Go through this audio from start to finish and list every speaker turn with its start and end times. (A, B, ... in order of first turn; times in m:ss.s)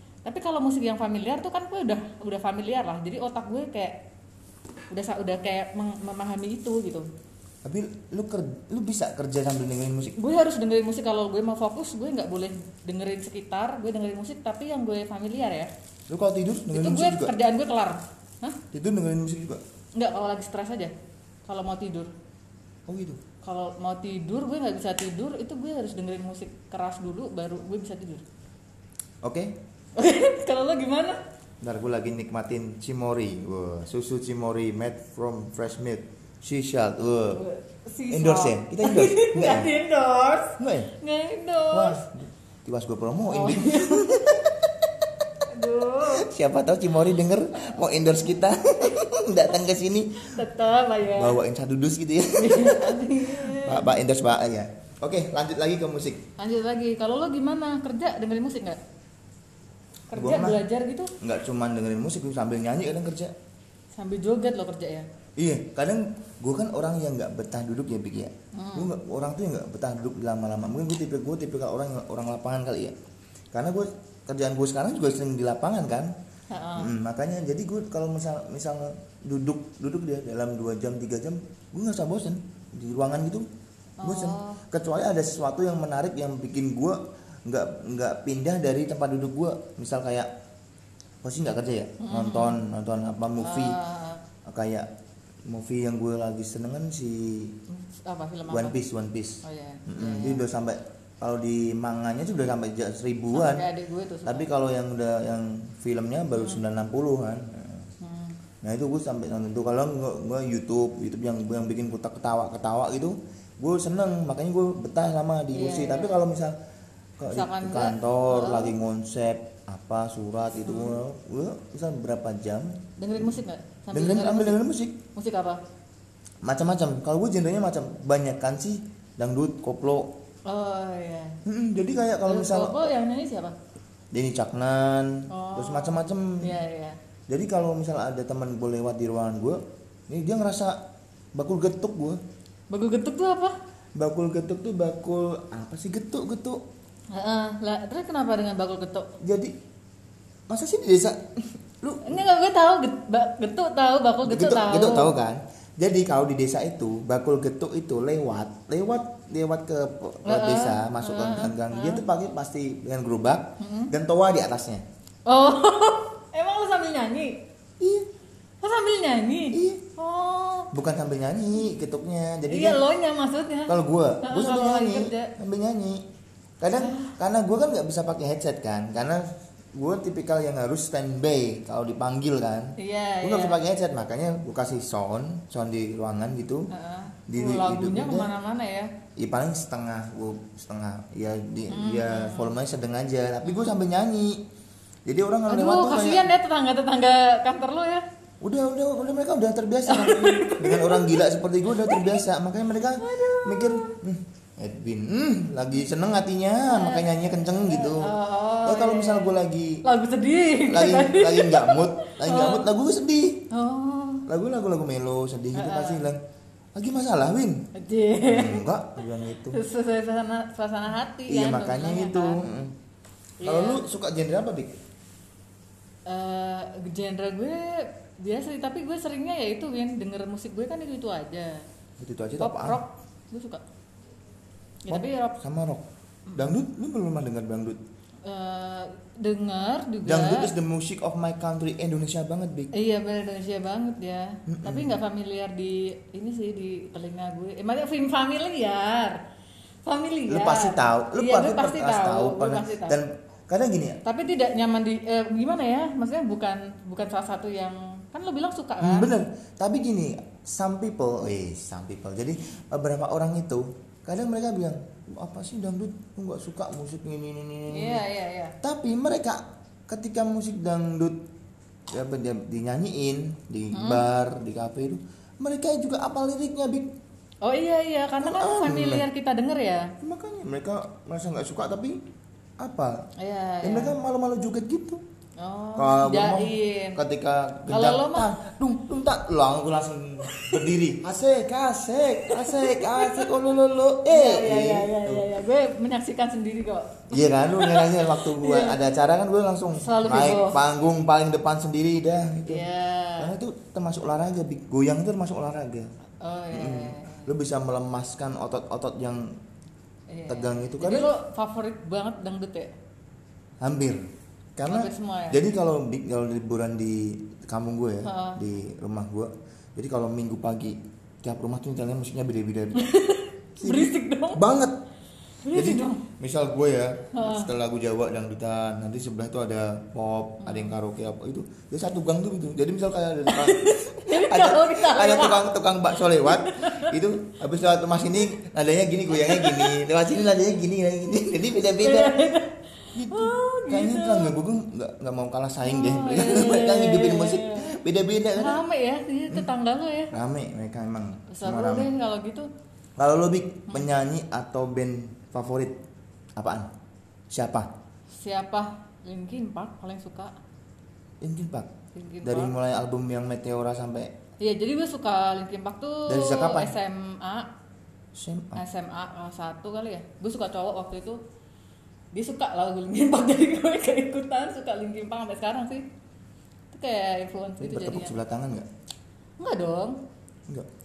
0:00.2-0:04.0 A
0:04.9-0:07.1 A
0:07.6-0:10.2 B
0:10.2-0:15.7 A
0:16.1-0:17.3 B
0:16.7-0:18.6 A
0:18.7-0:19.6 B
0:19.9-0:20.9 A
0:21.5-0:22.1 A
0:22.9-0:23.2 B
0:23.4-0:28.2 A
0:29.2-0:29.6 B
0:30.0-0:31.2 A
0:31.6-0:37.4 B
0:37.3-0:42.0 A
0:38.1-0:39.7 B
0:40.6-0:40.9 B
0:41.7-0:45.3 B
0:43.3-0:44.2 A
0:45.5-0:46.3 A
0:46.0-0:50.3 B
0:50.2-0:51.4 A
0:51.1-0:56.2 B
0:52.4-0:54.0 A
0:56.4-0:58.8 A
1:00.1-1:01.1 A
1:00.1-1:00.6 B
1:01.2-1:03.3 B
1:03.9-1:05.1 A
1:05.4-1:12.9 B
1:08.5-1:08.9 A
1:13.5-1:16.1 B
1:16.5-1:16.9 A
1:16.8-1:23.4 B
1:24.0-1:24.6 A
1:24.0-1:30.3 B
1:31.2-1:33.8 B
1:32.0-1:32.6 A
1:33.4-1:34.2 A
1:34.4-1:34.9 B
1:35.4-1:37.5 B
1:37.7-1:38.8 A
1:38.5-1:43.6 B
1:39.4-1:40.4 A
1:43.3-1:44.5 A
1:44.2-1:47.9 B
1:48.0-1:48.4 A
1:48.6-1:56.6 B
1:55.5-1:56.2 A
1:57.2-2:03.4 B
1:57.3-1:58.7 A
2:00.6-2:01.0 A
2:03.0-2:04.6 A
2:03.9-2:05.0 B
2:05.1-2:05.6 A
2:06.4-2:10.1 B
2:10.4-2:11.4 A
2:11.4-2:12.9 B
2:12.2-2:13.6 A
2:14.1-2:16.5 B
2:15.3-2:17.0 A
2:17.3-2:20.8 B
2:21.3-2:22.2 B
2:22.7-2:23.6 A
2:24.0-2:26.6 B
2:27.1-2:29.1 A
2:29.2-2:29.5 B
2:30.5-2:32.2 B
2:32.0-2:35.1 A
2:34.2-2:44.8 B
2:40.2-2:42.0 A
2:43.6-2:43.9 A
2:45.3-2:47.4 A
2:47.8-2:48.1 B
2:48.6-2:50.7 A
2:49.5-2:49.8 B
2:50.7-2:52.8 B
2:52.5-2:55.3 A
2:53.7-2:56.0 B
2:56.6-3:06.7 B
2:56.7-2:57.2 A
3:02.8-3:03.6 A
3:06.7-3:08.9 A
3:07.3-3:08.3 B
3:09.2-3:14.4 B
3:11.7-3:12.5 A
3:13.4-3:13.8 A
3:15.0-3:16.3 B
3:15.5-3:18.0 A
3:18.4-3:29.8 B
3:19.9-3:22.2 A
3:23.0-3:24.0 A
3:26.7-3:32.6 A
3:30.6-3:33.5 B
3:33.5-3:34.2 A
3:34.3-3:36.2 B
3:35.5-3:36.0 A
3:36.7-3:37.7 B
3:37.7-3:38.6 A
3:38.3-3:39.6 B
3:39.5-3:42.4 A
3:41.3-3:42.8 B
3:43.4-3:43.8 A
3:43.4-3:44.7 B
3:46.1-3:51.6 A
3:52.0-3:52.8 B
3:52.4-3:53.6 A
3:54.8-3:55.4 A
3:54.9-3:57.8 B
3:58.2-4:00.5 A
4:00.0-4:02.7 B
4:02.7-4:09.2 A
4:04.5-4:05.0 B
4:09.8-4:13.0 A
4:10.3-4:14.0 B
4:14.0-4:19.1 A
4:18.8-4:28.0 B
4:27.7-4:28.6 A
4:28.6-4:31.2 B
4:31.9-4:36.9 B
4:33.7-4:34.0 A
4:37.4-4:39.9 A
4:38.2-4:39.0 B
4:40.0-4:42.0 B
4:42.6-4:43.0 B
4:43.2-4:44.0 A
4:43.6-4:45.0 B
4:45.4-4:47.0 A
4:45.8-4:55.3 B
4:47.7-4:48.3 A
4:50.3-4:50.6 A
4:52.3-4:53.3 A
4:54.1-4:58.8 A
4:57.1-5:02.7 B
4:59.8-5:00.6 A
5:02.5-5:03.3 A
5:03.2-5:05.9 B
5:06.2-5:07.3 A
5:06.5-5:09.4 B
5:10.1-5:12.7 A
5:10.3-5:11.1 B
5:13.6-5:14.0 B
5:14.6-5:22.8 B
5:14.6-5:15.4 A
5:18.0-5:18.4 A
5:22.8-5:24.4 A
5:23.6-5:24.8 B
5:25.4-5:26.0 A
5:25.5-5:42.2 B
5:27.1-5:27.5 A
5:30.4-5:30.7 A
5:33.3-5:36.9 A
5:39.1-5:39.8 A
5:41.8-5:44.3 A
5:42.9-5:48.6 B
5:45.6-5:47.7 A
5:48.4-5:50.1 A
5:50.1-5:51.9 B
5:51.3-5:52.5 A
5:53.0-5:55.8 B
5:56.4-5:56.7 B
5:57.3-5:57.7 B
5:58.1-6:00.3 A
6:01.2-6:01.7 B
6:01.9-6:02.6 A
6:02.2-6:04.1 B
6:04.4-6:07.5 A
6:06.1-6:06.8 B
6:08.1-6:08.6 B
6:08.5-6:11.2 A
6:12.1-6:15.8 A
6:16.7-6:18.1 A
6:17.6-6:18.7 B
6:19.4-6:20.0 A